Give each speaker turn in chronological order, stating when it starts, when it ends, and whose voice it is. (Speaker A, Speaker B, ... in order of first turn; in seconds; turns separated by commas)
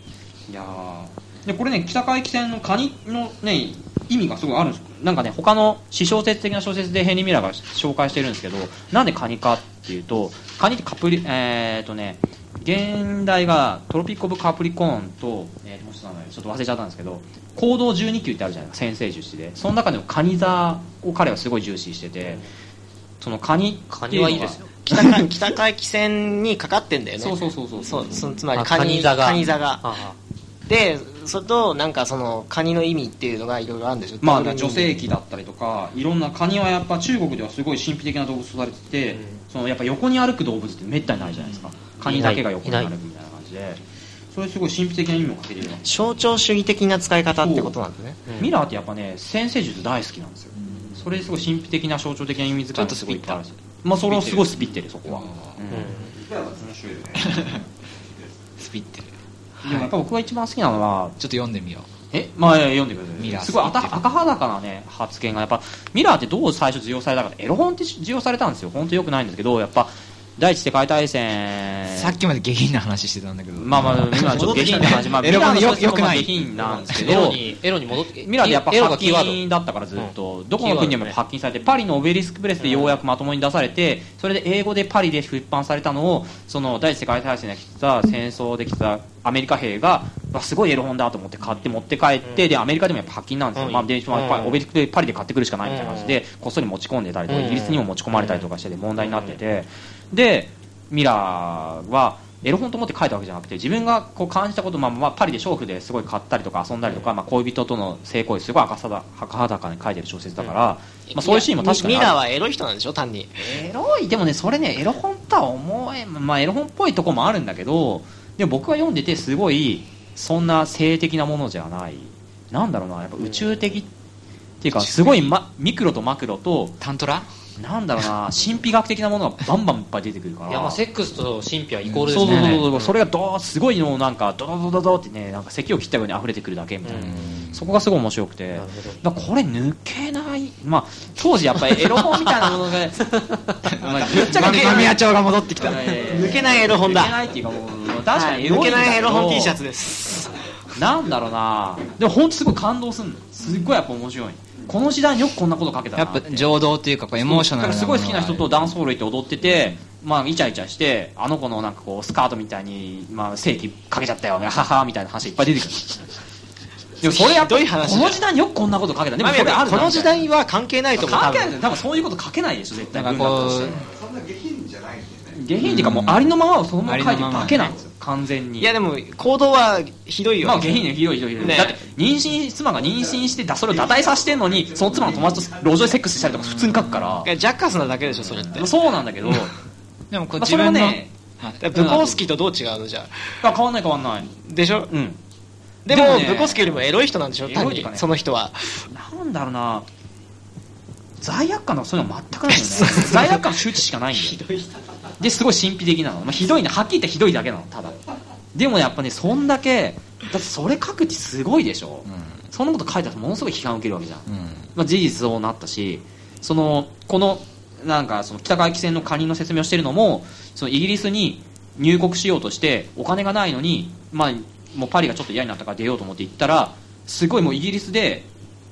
Speaker A: 0.5-22.4, Speaker A: 23.2-25.2, Speaker B: 23.9-24.7, Speaker C: 24.8-29.9, Speaker A: 27.2-28.2, Speaker B: 28.6-30.2, Speaker C: 30.7-35.0, Speaker A: 34.2-43.8, Speaker B: 39.1-39.4, Speaker B: 42.0-42.9, Speaker A: 44.3-46.0, Speaker C: 45.9-48.2, Speaker A: 47.4-47.8, Speaker A: 48.4-56.1, Speaker D: 50.6-51.2, Speaker D: 52.8-53.4, Speaker D: 55.1-55.6, Speaker B: 55.7-56.1, Speaker E: 56.2-57.6, Speaker D: 57.2-57.6, Speaker D: 58.6-59.9, Speaker A: 59.6-61.2, Speaker D: 61.2-61.9, Speaker A: 62.1-72.2, Speaker D: 63.2-64.0, Speaker D: 71.9-76.5, Speaker A: 73.6-77.4, Speaker B: 76.6-79.4, Speaker A: 78.1-112.2, Speaker B: 80.0-81.2, Speaker B: 82.6-83.0, Speaker B: 93.6-94.6, Speaker B: 95.7-96.2, Speaker B: 97.3-98.5, Speaker B: 99.0-99.4, Speaker C: 111.1-113.6, Speaker A: 113.4-123.9, Speaker A: 124.6-126.8, Speaker D: 126.8-127.3, Speaker A: 127.6-130.8, Speaker B: 130.5-132.9, Speaker D: 131.8-132.7, Speaker A: 132.1-149.6, Speaker B: 136.8-137.2, Speaker D: 136.9-137.7, Speaker B: 138.5-139.0, Speaker B: 143.1-143.3, Speaker D: 143.7-146.0, Speaker C: 146.0-147.2, Speaker C: 148.1-150.3, Speaker A: 150.7-156.5, Speaker D: 156.0-158.5, Speaker A: 157.2-166.1, Speaker A: 167.0-170.2, Speaker C: 167.0-168.2, Speaker C: 169.2-171.6, Speaker A: 170.9-173.9, Speaker D: 172.9-173.8, Speaker E: 173.8-175.4, Speaker A: 175.3-178.7, Speaker D: 175.6-176.3, Speaker D: 176.8-177.8, Speaker E: 177.6-177.8, Speaker C: 178.6-181.8, Speaker A: 180.4-187.3, Speaker E: 182.8-183.2, Speaker E: 183.7-186.0, Speaker D: 186.2-187.2, Speaker C: 187.2-188.7, Speaker A: 188.2-189.6, Speaker D: 190.1-191.6, Speaker A: 190.3-191.1, Speaker C: 191.6-193.3, Speaker A: 191.7-192.3, Speaker A: 193.4-194.3, Speaker C: 194.4-194.9, Speaker A: 194.9-195.2, Speaker C: 195.9-198.8, Speaker A: 195.9-196.9, Speaker A: 197.4-198.2, Speaker A: 198.9-199.9, Speaker A: 201.2-204.4, Speaker C: 202.6-203.4, Speaker C: 204.2-204.7, Speaker A: 205.2-208.0, Speaker A: 208.5-228.3, Speaker D: 212.1-212.4, Speaker D: 214.3-214.7